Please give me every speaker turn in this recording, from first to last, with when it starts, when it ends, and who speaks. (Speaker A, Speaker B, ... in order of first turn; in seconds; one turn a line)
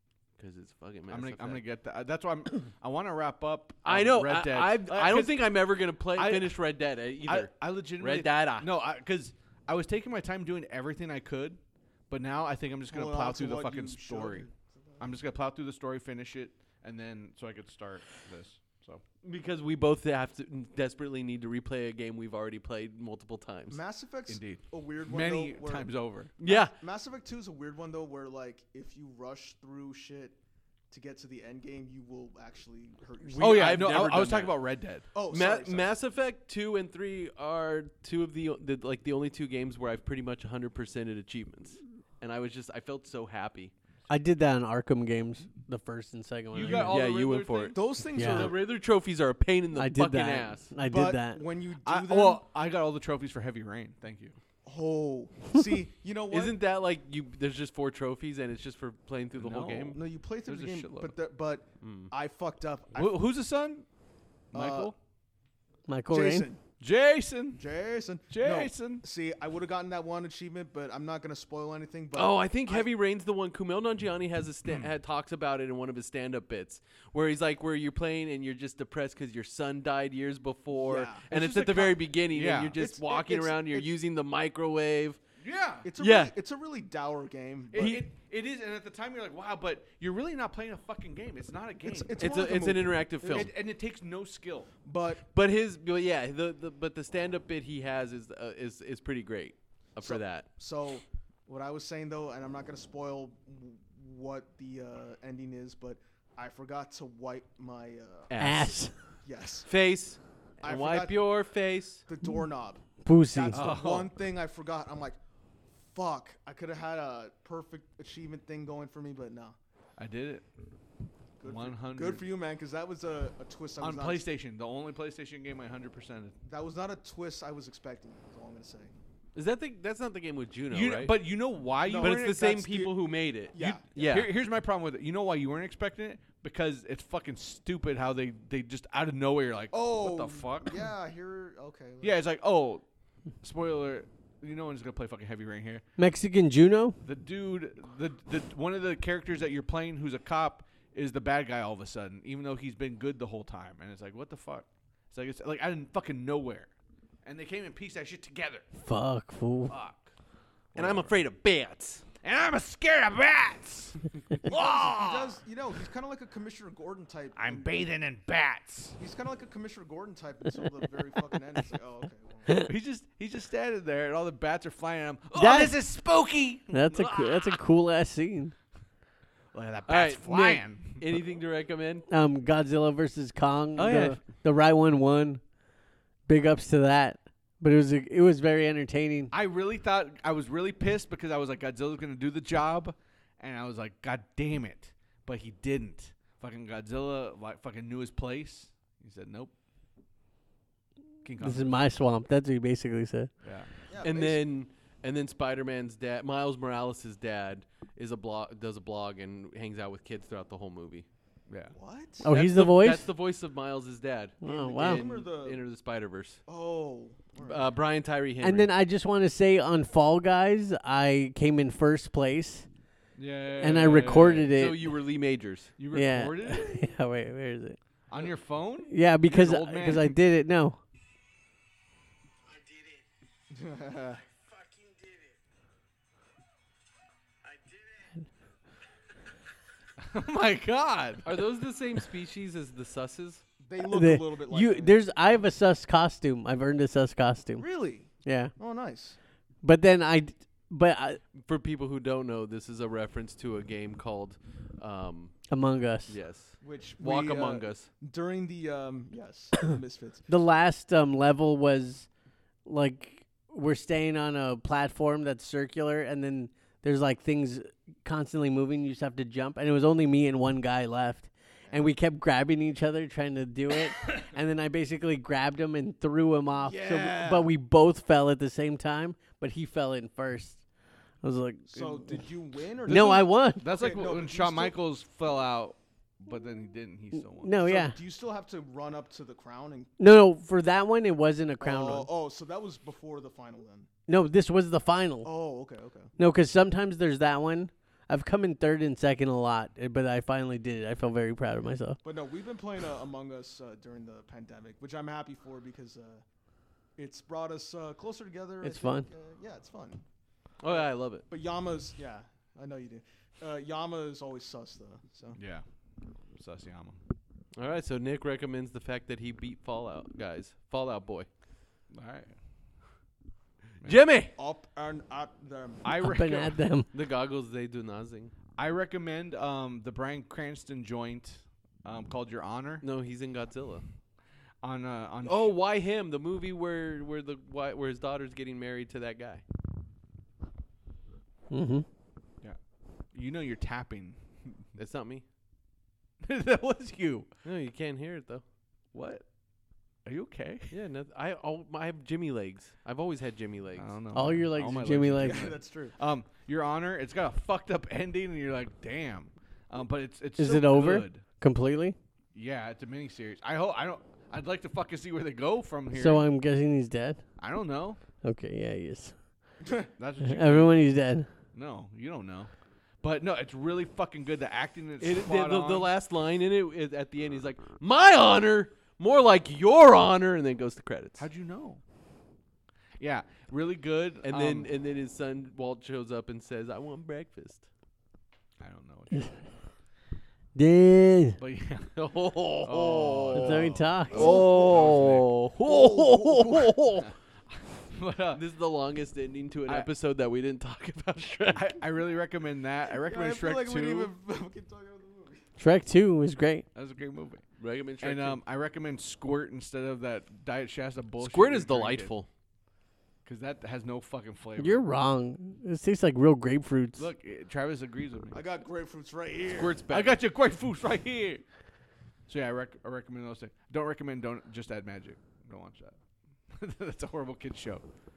Speaker A: 0.4-1.6
Speaker B: 1.1-5.5
Speaker A: 3.8-8.7
Speaker B: 6.1-6.6
Speaker B: 7.2-14.5
Speaker C: 12.9-15.2
Speaker B: 15.0-19.0
Speaker A: 19.2-23.8
Speaker C: 23.7-30.4
Speaker B: 24.3-26.3
Speaker A: 26.4-26.7
Speaker C: 30.9-34.1
Speaker A: 33.2-34.6
Speaker B: 33.4-35.1
Speaker C: 35.1-35.9
Speaker A: 35.3-43.7
Speaker D: 44.1-47.0
Speaker B: 46.5-47.8
Speaker A: 46.6-50.7
Speaker C: 47.7-48.6
Speaker D: 48.1-48.5
Speaker D: 49.7-51.4
Speaker C: 50.9-52.4
Speaker B: 51.8-54.4
Speaker C: 54.6-56.6
Speaker A: 56.3-60.0
Speaker B: 59.4-61.1
Speaker C: 59.9-63.2
Speaker A: 61.8-62.1
Speaker B: 63.0-63.8
Speaker B: 64.5-64.9
Speaker C: 64.5-64.9
Speaker D: 65.9-66.5
Speaker C: 66.1-66.6
Speaker B: 66.8-67.6
Speaker C: 67.5-72.9
Speaker B: 68.3-69.0
Speaker A: 72.1-85.2
Speaker C: 80.7-81.3
Speaker B: 81.3-82.8
Speaker C: 82.8-83.9
Speaker B: 85.4-85.9
Speaker C: 85.8-88.0
Speaker A: 86.0-86.3
Speaker B: 87.7-92.2
Speaker A: 87.7-88.1
Speaker C: 91.8-93.5
Speaker A: 92.2-93.5
Speaker B: 93.2-94.7
Speaker C: 94.8-95.2
Speaker A: 95.3-100.5
Speaker C: 100.0-108.3
Speaker A: 108.3-108.8
Speaker D: 108.4-108.9
Speaker C: 109.2-109.7
Speaker A: 109.7-112.0
Speaker C: 110.6-111.4
Speaker C: 112.1-115.2
Speaker D: 113.0-113.6
Speaker B: 113.5-114.1
Speaker C: 115.8-119.6
Speaker B: 120.0-120.4
Speaker C: 121.4-124.2
Speaker B: 121.4-122.2
Speaker B: 123.8-126.3
Speaker C: 126.4-128.9
Speaker A: 129.3-131.2
Speaker B: 130.7-132.6
Speaker C: 131.8-132.9
Speaker A: 131.9-134.3
Speaker C: 133.5-133.8
Speaker B: 133.6-140.8
Speaker C: 139.7-142.2
Speaker B: 142.0-142.8
Speaker B: 143.4-145.8
Speaker D: 146.0-146.9
Speaker B: 147.0-156.7
Speaker B: 157.2-158.7
Speaker D: 158.8-159.7
Speaker B: 159.7-160.1
Speaker B: 160.7-161.2
Speaker A: 160.8-162.0
Speaker B: 162.2-165.4
Speaker C: 164.4-167.8
Speaker B: 167.3-169.0
Speaker C: 169.0-172.5
Speaker B: 172.7-177.5
Speaker D: 175.3-175.8
Speaker D: 176.7-178.5
Speaker B: 179.5-181.0
Speaker A: 179.9-182.1
Speaker D: 182.1-185.4
Speaker A: 183.8-184.2
Speaker D: 186.3-189.3
Speaker B: 189.3-199.5
Speaker B: 201.2-201.7
Speaker D: 201.4-203.3
Speaker B: 203.4-203.7
Speaker C: 203.9-204.4
Speaker A: 204.0-211.1
Speaker B: 211.5-211.7
Speaker C: 211.7-212.2
Speaker D: 212.2-213.1
Speaker A: 212.3-216.4
Speaker D: 214.4-215.1
Speaker C: 214.4-215.6
Speaker C: 216.5-217.7
Speaker A: 217.4-218.7
Speaker D: 218.4-222.7
Speaker B: 223.1-224.5
Speaker D: 223.6-224.9
Speaker A: 224.5-225.8
Speaker B: 225.8-226.9
Speaker D: 225.9-227.8
Speaker B: 228.1-230.1
Speaker D: 228.9-230.8
Speaker C: 233.5-234.2
Speaker B: 240.0-241.4
Speaker A: 241.2-243.4
Speaker C: 243.6-245.0
Speaker D: 243.8-247.7
Speaker C: 247.6-249.2
Speaker D: 248.2-248.5
Speaker D: 249.6-251.2
Speaker A: 251.3-255.4
Speaker D: 255.5-256.1
Speaker A: 256.1-257.9
Speaker C: 256.6-260.2
Speaker D: 260.3-262.1
Speaker D: 262.6-280.6
Speaker C: 271.6-271.9
Speaker C: 276.8-277.4
Speaker D: 281.2-282.2
Speaker C: 281.7-284.8
Speaker D: 282.9-283.6
Speaker B: 282.9-287.6
Speaker D: 287.1-288.0
Speaker C: 287.5-289.9
Speaker D: 290.0-292.1
Speaker C: 291.6-293.9
Speaker D: 294.1-295.3
Speaker C: 295.2-296.1
Speaker D: 296.2-302.0
Speaker C: 302.0-306.2
Speaker C: 307.0-310.0
Speaker D: 308.6-309.1
Speaker A: 310.6-311.2
Speaker C: 310.6-315.4
Speaker B: 315.4-315.6
Speaker B: 316.3-317.0
Speaker A: 317.5-321.3
Speaker B: 321.9-322.3
Speaker A: 323.8-324.3
Speaker C: 324.4-325.9
Speaker B: 325.8-326.6
Speaker D: 326.0-326.9
Speaker A: 326.9-328.3
Speaker B: 328.6-332.8
Speaker A: 332.8-333.8
Speaker B: 334.6-335.5
Speaker A: 335.2-339.4
Speaker D: 341.5-341.9
Speaker B: 343.1-344.6
Speaker A: 344.8-345.2
Speaker B: 346.2-347.3
Speaker A: 347.4-348.4
Speaker B: 348.9-349.2
Speaker B: 350.0-350.7
Speaker A: 350.7-353.9
Speaker B: 353.8-361.2
Speaker D: 354.1-355.5
Speaker C: 355.1-356.0
Speaker D: 360.4-361.9
Speaker B: 362.3-366.2
Speaker D: 365.9-367.2
Speaker B: 367.4-368.0
Speaker D: 368.2-369.1
Speaker C: 369.6-369.9
Speaker B: 370.0-370.8
Speaker D: 370.2-371.3
Speaker B: 371.5-372.5
Speaker B: 373.0-375.9
Speaker A: 375.0-381.2
Speaker B: 381.2-381.8
Speaker B: 383.0-384.7
Speaker A: 384.2-387.6
Speaker B: 388.6-389.5
Speaker D: 390.5-391.4
Speaker B: 391.4-392.0
Speaker A: 392.0-397.1
Speaker B: 392.6-395.3
Speaker D: 393.3-394.3
Speaker C: 394.1-394.9
Speaker C: 395.6-396.8
Speaker B: 397.9-398.4
Speaker A: 398.3-401.8
Speaker B: 401.5-404.1
Speaker C: 402.9-405.4
Speaker D: 405.6-406.6
Speaker B: 406.7-407.4
Speaker A: 407.6-408.4
Speaker B: 408.0-412.1
Speaker A: 411.2-412.3
Speaker B: 413.2-414.8
Speaker D: 414.6-417.1
Speaker B: 417.0-418.4
Speaker C: 418.3-419.8
Speaker A: 419.5-420.2
Speaker B: 419.9-421.4
Speaker B: 422.3-425.9
Speaker B: 426.5-427.8